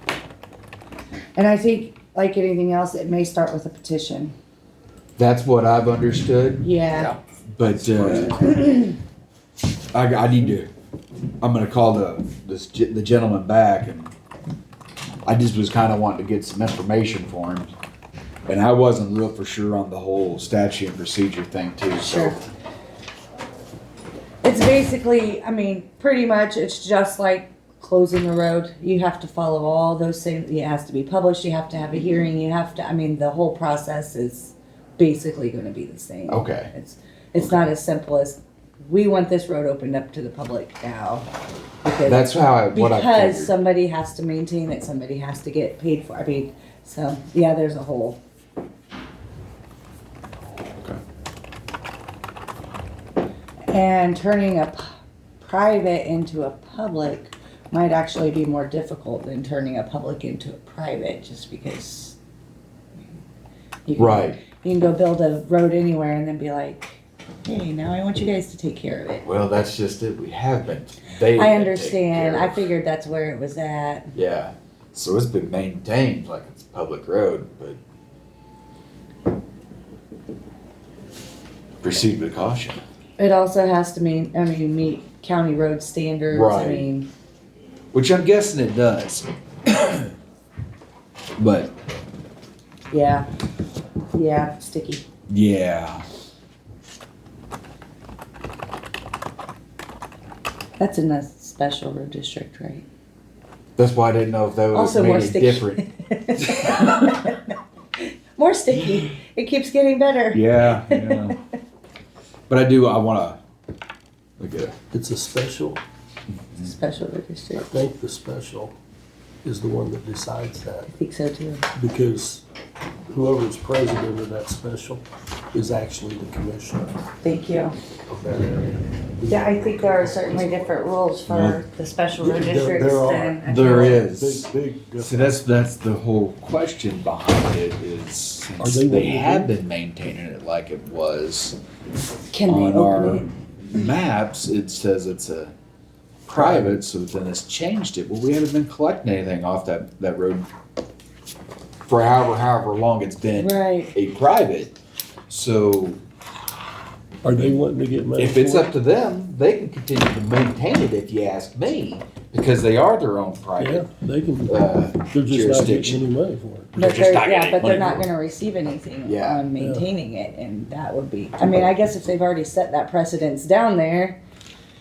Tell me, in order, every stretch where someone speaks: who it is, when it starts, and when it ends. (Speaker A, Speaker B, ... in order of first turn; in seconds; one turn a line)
Speaker A: 1.4-4.3
Speaker B: 5.2-6.7
Speaker A: 6.6-7.2
Speaker B: 7.5-8.4
Speaker A: 8.2-8.9
Speaker B: 9.9-10.7
Speaker B: 11.4-14.1
Speaker B: 15.3-17.7
Speaker B: 18.5-22.4
Speaker A: 22.0-22.4
Speaker A: 24.4-41.3
Speaker B: 36.3-36.7
Speaker A: 41.8-48.2
Speaker B: 42.0-43.5
Speaker A: 53.7-54.9
Speaker A: 55.4-62.2
Speaker A: 63.9-69.2
Speaker B: 64.0-64.4
Speaker B: 69.2-72.7
Speaker A: 71.3-74.1
Speaker B: 74.2-77.8
Speaker B: 81.8-82.8
Speaker A: 83.2-87.1
Speaker B: 86.3-86.9
Speaker B: 87.9-90.1
Speaker B: 91.4-91.7
Speaker A: 92.9-93.3
Speaker A: 94.1-95.0
Speaker B: 95.3-96.0
Speaker A: 100.8-102.9
Speaker B: 103.8-105.8
Speaker A: 104.7-111.3
Speaker B: 106.5-107.1
Speaker B: 110.3-111.4
Speaker B: 112.5-113.4
Speaker B: 114.4-114.7
Speaker C: 114.9-115.8
Speaker B: 116.3-116.7
Speaker A: 116.6-117.7
Speaker C: 117.6-118.8
Speaker C: 119.4-120.9
Speaker A: 120.9-121.7
Speaker C: 121.8-122.4
Speaker C: 123.1-127.0
Speaker A: 127.2-127.8
Speaker C: 128.1-130.8
Speaker A: 129.3-134.1
Speaker B: 131.3-131.6
Speaker C: 132.2-135.4
Speaker B: 133.4-141.6
Speaker C: 138.6-139.5
Speaker A: 142.3-143.3
Speaker B: 142.4-145.5
Speaker B: 146.3-150.5
Speaker C: 146.3-146.8
Speaker B: 151.8-154.7
Speaker A: 153.3-153.9
Speaker B: 155.3-156.0
Speaker C: 157.2-158.7
Speaker B: 157.3-157.6
Speaker B: 158.2-163.9
Speaker C: 163.6-166.8
Speaker B: 164.5-166.1
Speaker B: 166.8-168.1
Speaker A: 166.8-174.2
Speaker B: 169.1-169.5
Speaker C: 169.6-169.9